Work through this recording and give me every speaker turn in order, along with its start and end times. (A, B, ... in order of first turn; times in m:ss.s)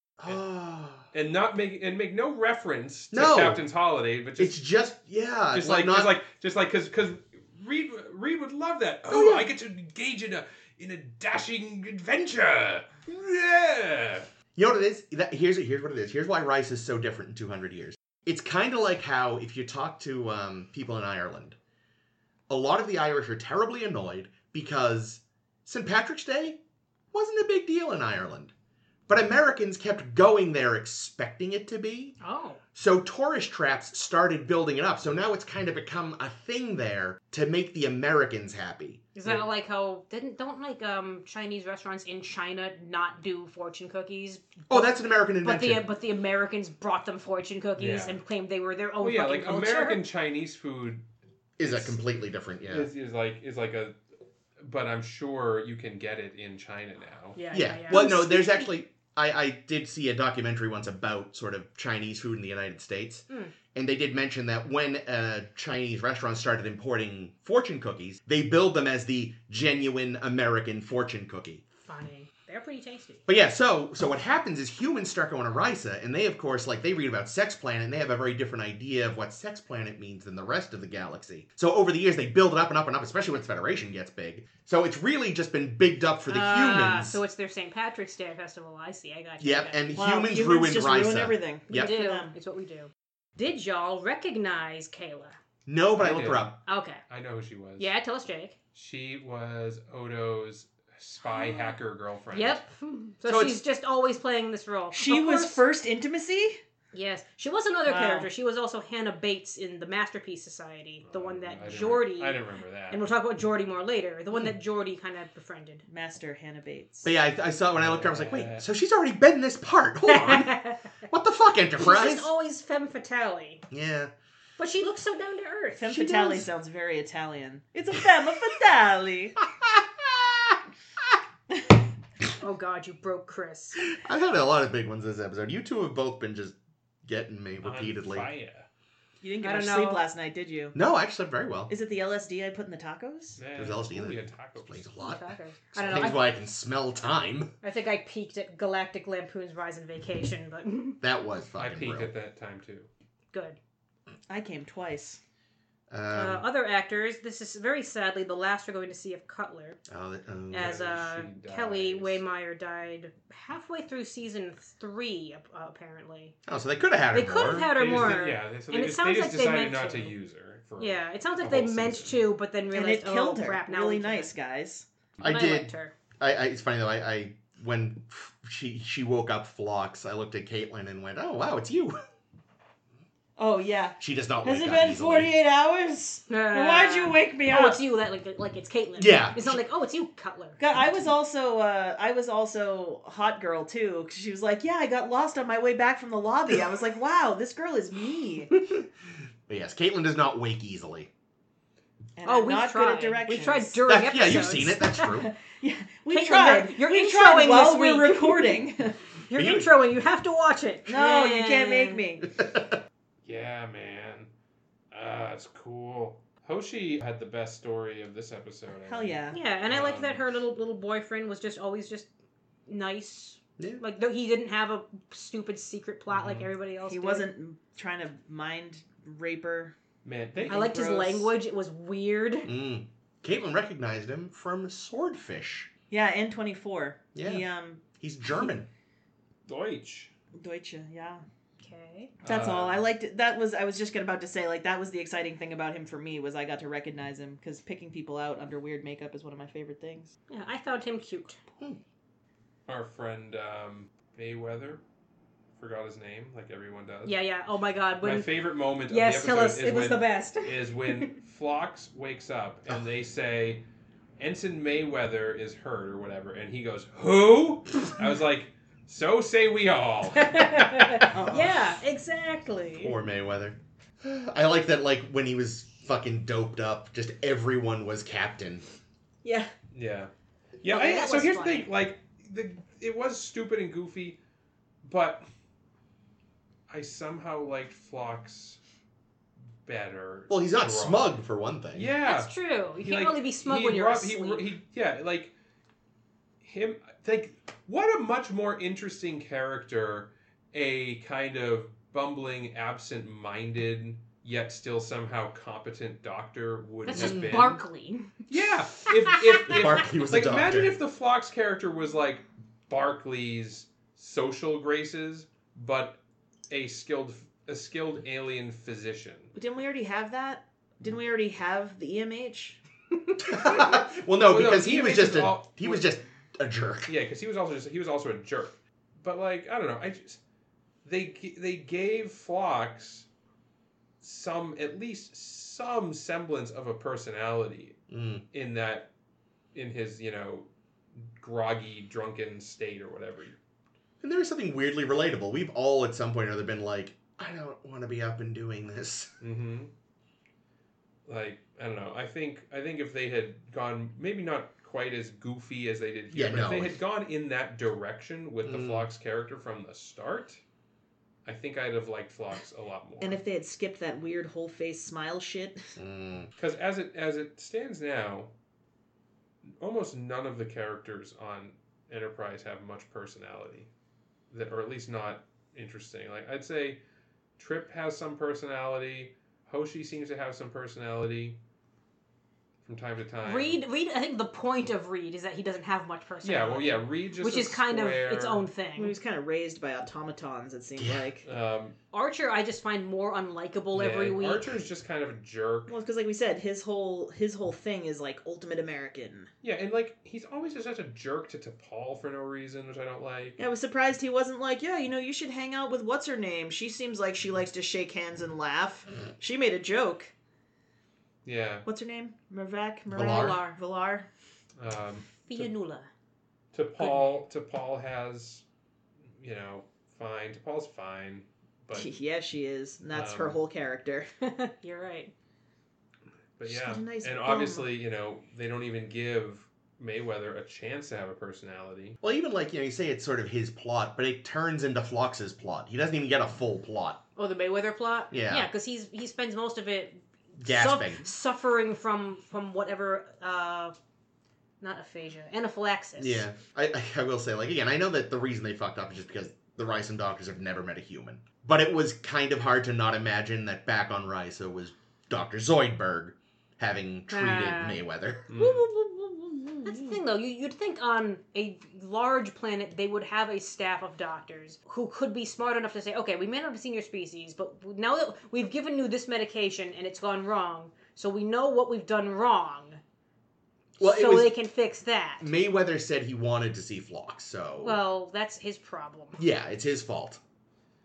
0:00.2-0:01.1 A
0:01.1-0:04.5 B
0:03.1-0:03.6 A
0:04.4-0:06.2 A
0:05.5-0:14.3 B
0:09.1-0:09.4 A
0:14.5-0:21.6 A
0:22.5-0:26.6 A
0:27.1-0:28.5 A
0:29.1-0:32.1 A
0:32.2-0:32.6 C
0:32.7-0:39.0 A
0:39.1-0:44.9 C
0:44.7-0:45.8 A
0:45.4-0:50.0 C
0:47.8-0:48.2 B
0:49.0-0:51.0 B
0:51.6-0:52.9 A
0:51.6-0:52.0 B
0:52.7-0:54.0 B
0:54.6-0:57.4 B
0:57.4-0:58.7 C
0:57.5-1:11.6 A
1:11.8-1:13.2 C
1:13.3-1:27.2 A
1:26.3-1:29.8 C
1:29.4-1:31.9 A
1:29.9-1:32.3 D
1:31.7-1:35.4 C
1:35.6-1:36.6 A
1:36.0-1:36.5 B
1:36.6-1:37.0 C
1:37.1-1:37.9 B
1:37.8-1:38.6 C
1:38.7-1:42.6 B
1:41.2-1:41.8 C
1:42.3-1:45.6 C
1:44.9-1:46.6 D
1:46.9-1:55.8 C
1:47.8-1:48.3 D
1:51.0-1:53.0 B
1:55.8-1:57.1 D
1:57.0-2:00.6 A
1:57.7-1:58.6 B
2:00.1-2:00.9 C
2:01.1-2:02.3 A
2:01.8-2:03.6 C
2:03.7-2:04.1 A
2:04.6-2:06.4 C
2:05.8-2:09.4 D
2:09.6-2:10.3 A
2:12.4-2:13.8 C
2:13.8-2:18.3 A
2:17.6-2:18.7 B
2:19.2-2:20.8 D
2:19.4-2:20.0 C
2:20.7-2:21.7 A
2:21.7-2:23.4 D
2:23.4-2:24.9 B
2:23.5-2:27.5 A
2:25.0-2:26.3 C
2:27.6-2:31.0 C
2:31.0-2:32.1 A
2:31.6-2:32.9 B
2:33.3-2:33.6 C
2:34.3-2:35.2 D
2:35.9-2:36.4 A
2:36.1-2:39.8 C
2:39.9-2:40.8 A
2:40.5-2:46.3 C
2:40.5-2:42.2 B
2:46.4-2:48.0 A
2:47.1-2:50.1 C
2:47.8-2:52.2 B
2:50.8-2:54.3 C
2:52.7-2:54.9 D
2:55.2-3:02.0 A
2:55.2-2:55.9 C
3:03.4-3:07.8 D
3:04.0-3:05.3 A
3:06.3-3:10.6 C
3:09.0-3:09.6 A
3:10.6-3:18.6 D
3:10.8-3:11.0 A
3:19.5-3:21.1 A
3:22.2-3:23.8 D
3:22.2-3:25.2 C
3:23.8-3:25.3 A
3:25.1-3:29.0 D
3:26.1-3:28.6 C
3:29.3-3:32.0 C
3:29.3-3:29.7 A
3:30.9-3:32.3 D
3:32.4-3:32.8 A
3:33.2-3:34.3 B
3:34.9-3:40.2 B
3:38.8-3:39.4 D
3:39.3-3:42.1 C
3:42.7-3:47.3 C
3:46.1-3:46.5 B
3:46.8-3:49.7 D
3:50.0-3:51.3 B
3:50.5-3:52.5 C
3:52.4-3:55.7 A
3:55.9-3:57.8 D
3:57.1-3:58.7 A
3:59.5-4:00.1 B
4:00.4-4:01.2 D
4:01.6-4:02.1 C
4:02.2-4:02.8 B
4:02.2-4:10.1 D
4:10.3-4:11.4 C
4:12.7-4:14.8 B
4:15.6-4:17.2 B
4:17.0-4:18.3 C
4:18.0-4:23.6 B
4:18.9-4:21.1 C
4:24.2-4:31.1 B
4:30.2-4:32.9 C
4:31.1-4:31.7 D
4:32.8-4:38.6 A
4:39.2-4:39.5 D
4:39.7-4:40.1 B
4:40.6-4:44.2 B
4:40.6-4:41.7 C
4:44.8-4:45.2 B
4:46.7-4:48.6 B
4:49.6-4:51.2 B
4:50.3-4:51.9 A
4:51.7-4:55.3 B
4:52.0-4:54.5 C
4:56.4-5:07.6 B
5:06.8-5:08.3 C
5:06.9-5:07.5 A
5:08.3-5:19.3 B
5:08.8-5:09.4 C
5:09.4-5:10.8 A
5:19.3-5:22.6 D
5:23.2-5:26.9 A
5:23.3-5:25.9 B
5:26.8-5:30.2 B
5:30.8-5:33.1 B
5:34.0-5:37.8 B
5:37.9-5:38.2 A
5:38.3-5:38.9 B
5:39.5-5:40.5 B
5:41.2-5:43.4 B
5:44.0-5:49.1 A
5:49.2-5:49.7 B
5:51.0-6:00.4 B
5:56.1-5:56.8 A
5:58.4-5:58.9 A
6:01.2-6:03.2 B
6:03.0-6:05.7 D
6:05.8-6:06.3 A
6:06.4-6:08.3 B
6:09.4-6:13.7 B
6:14.3-6:16.8 B
6:17.4-6:21.4 B
6:22.6-6:23.6 B
6:23.2-6:28.9 C
6:26.2-6:28.4 B
6:28.8-6:31.2 D
6:30.8-6:31.1 A
6:31.2-6:31.8 B
6:31.9-6:34.5 C
6:33.7-6:35.7 B
6:35.7-6:39.3 D
6:39.4-6:43.4 B
6:43.4-6:50.1 D
6:51.2-6:51.7 B
6:51.6-6:54.1 D
6:52.9-6:53.4 A
6:53.0-6:53.6 C
6:54.6-6:55.5 B
6:55.2-6:55.9 C
6:56.5-6:58.4 B
6:59.2-7:01.9 B
7:01.7-7:04.1 D
7:02.9-7:03.4 B
7:04.2-7:05.1 C
7:06.4-7:12.0 B
7:06.4-7:07.7 D
7:12.0-7:17.0 A
7:17.2-7:23.7 C
7:18.1-7:18.5 A
7:20.4-7:21.1 A
7:24.6-7:26.2 C
7:26.0-7:38.3 A
7:37.1-7:37.8 C
7:38.3-7:38.7 B
7:39.6-7:52.8 C
7:53.8-7:54.3 A
7:53.8-7:55.2 C
7:55.2-7:57.8 A
7:57.6-7:59.2 C
7:59.2-8:00.2 A